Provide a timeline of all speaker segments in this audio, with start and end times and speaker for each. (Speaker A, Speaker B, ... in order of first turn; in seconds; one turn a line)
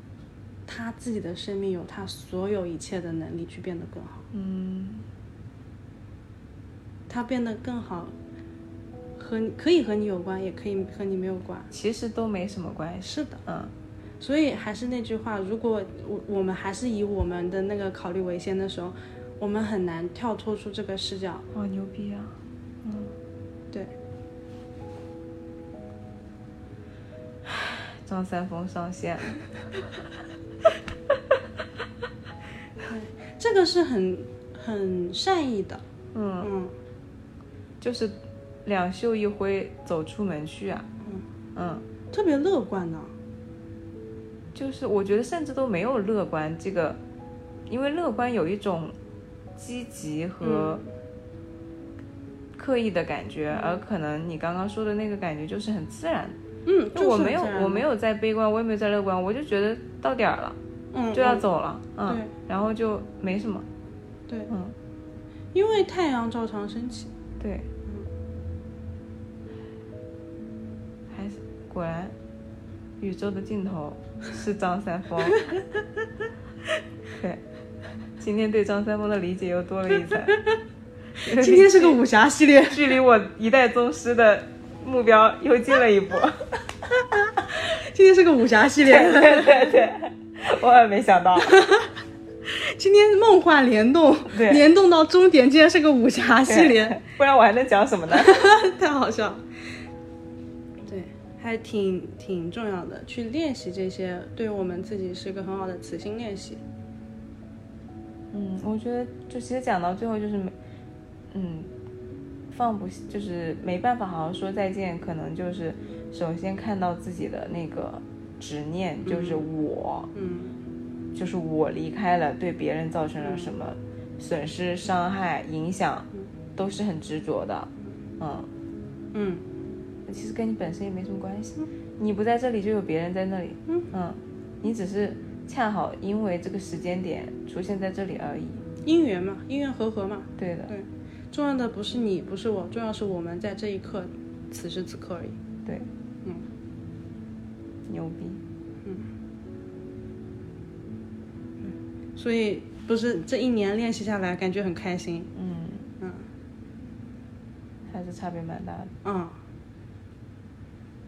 Speaker A: 0.7-4.3
Speaker B: 4.3-5.0
Speaker A: 7.1-8.1
Speaker A: 9.2-11.7
Speaker B: 11.7-13.7
Speaker A: 13.0-13.4
Speaker A: 14.2-21.4
Speaker B: 21.5-23.1
Speaker B: 27.4-29.4
Speaker A: 32.8-35.8
Speaker B: 36.1-36.5
Speaker A: 36.4-36.7
Speaker B: 37.8-40.9
Speaker B: 41.5-41.8
Speaker A: 42.1-43.1
Speaker B: 44.5-47.0
Speaker B: 47.7-49.0
Speaker B: 49.5-50.8
Speaker A: 50.4-50.8
Speaker B: 52.5-56.4
Speaker A: 56.6-57.9
Speaker B: 56.9-60.6
Speaker A: 60.9-61.5
Speaker B: 61.1-63.6
Speaker A: 62.0-62.3
Speaker B: 64.5-64.7
Speaker A: 65.5-67.1
Speaker B: 67.4-67.7
Speaker B: 71.1-72.1
Speaker B: 73.0-75.4
Speaker B: 78.2-80.4
Speaker B: 81.2-82.0
Speaker A: 81.2-82.9
Speaker B: 82.7-86.6
Speaker A: 87.5-89.7
Speaker B: 88.8-91.6
Speaker A: 91.4-91.9
Speaker A: 92.5-97.0
Speaker B: 94.3-94.6
Speaker B: 96.4-98.5
Speaker A: 98.1-99.4
Speaker A: 100.9-106.6
Speaker B: 108.3-110.5
Speaker B: 111.3-111.7
Speaker B: 112.5-120.1
Speaker A: 119.0-119.5
Speaker A: 120.1-120.5
Speaker B: 121.1-128.5
Speaker A: 123.2-123.5
Speaker A: 129.1-129.4
Speaker B: 130.1-138.6
Speaker A: 138.8-145.4
Speaker B: 140.4-140.7
Speaker B: 147.9-148.4
Speaker A: 151.6-155.3
Speaker B: 155.3-155.9
Speaker A: 156.0-156.2
Speaker B: 157.9-158.9
Speaker A: 159.0-159.3